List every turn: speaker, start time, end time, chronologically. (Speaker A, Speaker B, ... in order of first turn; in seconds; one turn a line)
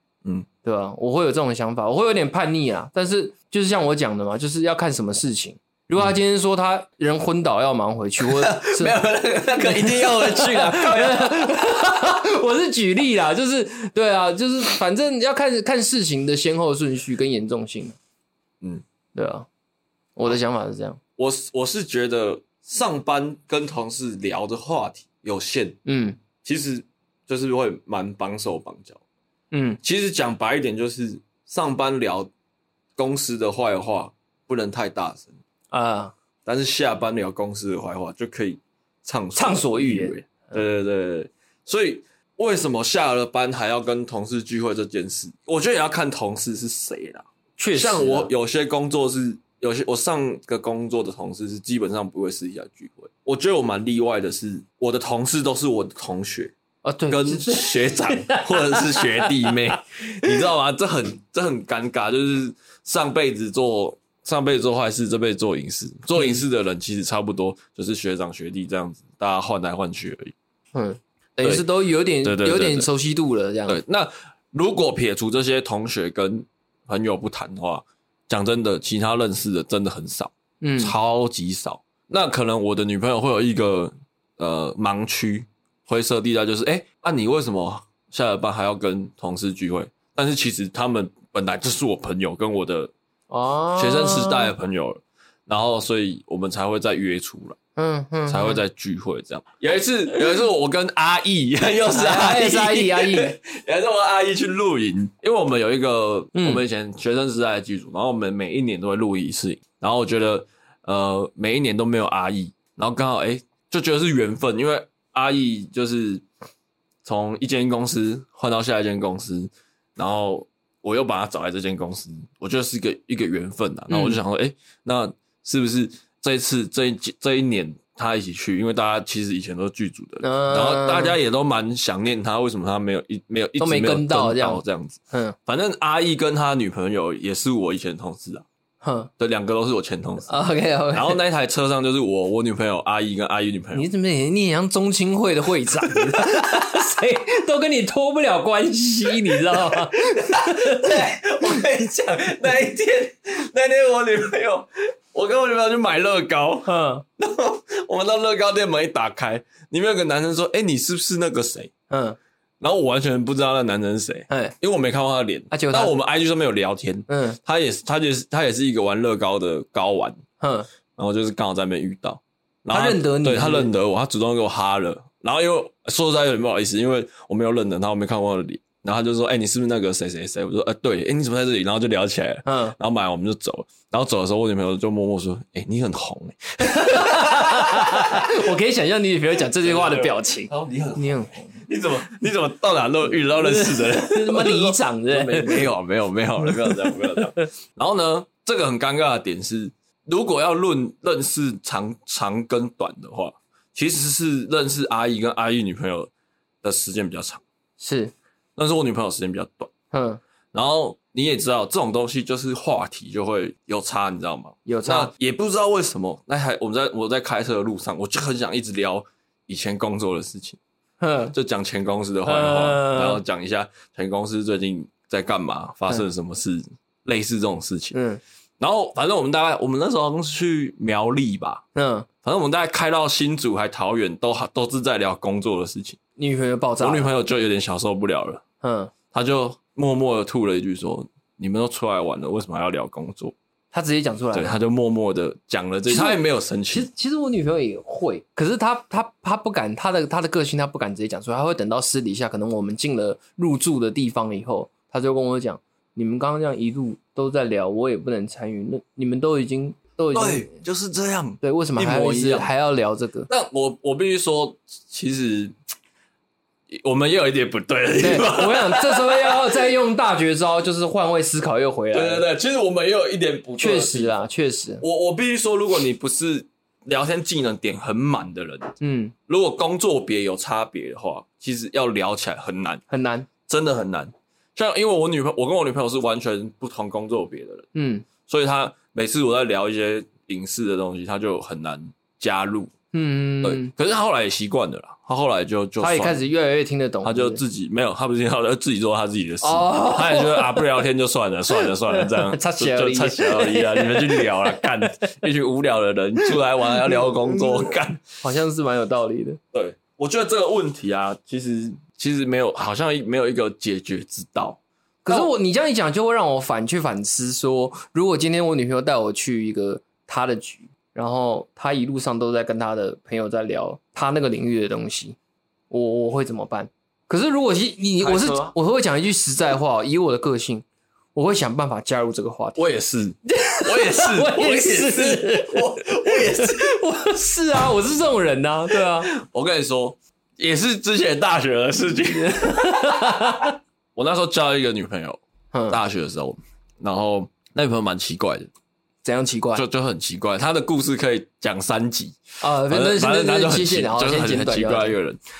Speaker A: 0.6-9.0
Speaker B: 8.2-11.8
Speaker A: 9.6-18.0
Speaker A: 19.1-19.5
Speaker A: 20.1-21.0
Speaker B: 21.2-25.8
Speaker A: 25.9-26.2
Speaker B: 26.4-29.0
Speaker A: 29.5-29.8
Speaker B: 29.8-32.3
Speaker B: 33.0-35.4
Speaker A: 35.7-36.1
Speaker B: 36.4-56.5
Speaker A: 39.4-40.6
Speaker A: 47.6-48.3
Speaker A: 56.8-59.5
Speaker B: 57.1-70.3
Speaker A: 66.2-66.4
Speaker A: 70.7-73.8
Speaker B: 71.4-71.7
Speaker B: 72.2-72.9
Speaker B: 73.7-92.9
Speaker A: 80.6-80.9
Speaker A: 93.3-94.5
Speaker B: 93.8-97.6
Speaker A: 97.8-98.6
Speaker B: 98.3-116.2
Speaker A: 101.9-103.4
Speaker A: 106.3-106.6
Speaker B: 117.0-138.4
Speaker A: 123.9-124.2
Speaker A: 130.2-131.2
Speaker A: 133.6-135.4
Speaker A: 138.8-139.1
Speaker B: 139.2-140.3
Speaker A: 140.3-141.2
Speaker B: 140.9-143.9
Speaker A: 143.7-150.8
Speaker B: 150.1-161.7
Speaker A: 156.7-157.0
Speaker A: 161.9-162.2
Speaker B: 162.6-170.2
Speaker A: 164.3-164.6
Speaker A: 165.5-165.9
Speaker A: 167.1-167.4
Speaker A: 170.4-170.7
Speaker B: 170.9-188.4
Speaker A: 172.7-173.7
Speaker A: 182.4-182.8
Speaker A: 186.6-191.5
Speaker B: 189.6-206.1
Speaker A: 193.3-195.7
Speaker A: 196.4-197.2
Speaker B: 206.6-207.4
Speaker A: 207.8-208.1
Speaker B: 208.6-209.7
Speaker A: 209.9-210.2
Speaker B: 210.5-220.6
Speaker A: 214.7-215.1
Speaker A: 221.0-221.3
Speaker B: 221.3-227.9
Speaker A: 222.2-223.2
Speaker A: 227.9-228.2
Speaker B: 228.6-231.6
Speaker A: 231.7-232.1
Speaker B: 232.2-236.0
Speaker A: 236.2-237.1
Speaker B: 236.8-238.4
Speaker A: 238.6-238.9
Speaker B: 239.1-243.3
Speaker A: 243.7-244.6
Speaker B: 244.3-246.9
Speaker A: 245.9-260.6
Speaker B: 260.1-262.5
Speaker A: 261.4-263.3
Speaker B: 263.3-265.5
Speaker B: 266.7-269.6
Speaker A: 268.0-272.2
Speaker B: 271.9-274.1
Speaker A: 273.6-274.8
Speaker B: 274.8-278.7
Speaker A: 278.8-279.1
Speaker B: 279.3-282.8
Speaker A: 282.9-283.3
Speaker B: 283.5-287.7
Speaker A: 287.7-288.1
Speaker B: 288.2-292.7
Speaker A: 292.9-293.7
Speaker B: 293.4-296.2
Speaker A: 295.8-297.4
Speaker B: 297.0-308.0
Speaker A: 299.4-300.8
Speaker A: 301.5-304.9
Speaker A: 306.7-307.7
Speaker A: 308.2-309.4
Speaker B: 309.5-315.3
Speaker A: 315.0-325.2
Speaker A: 325.7-332.6
Speaker B: 328.0-328.5
Speaker B: 332.6-336.7
Speaker A: 333.3-339.1
Speaker B: 339.0-343.1
Speaker A: 342.1-343.6
Speaker B: 343.9-348.5
Speaker A: 345.5-345.8
Speaker A: 349.0-349.6
Speaker B: 349.5-355.2
Speaker A: 352.4-354.9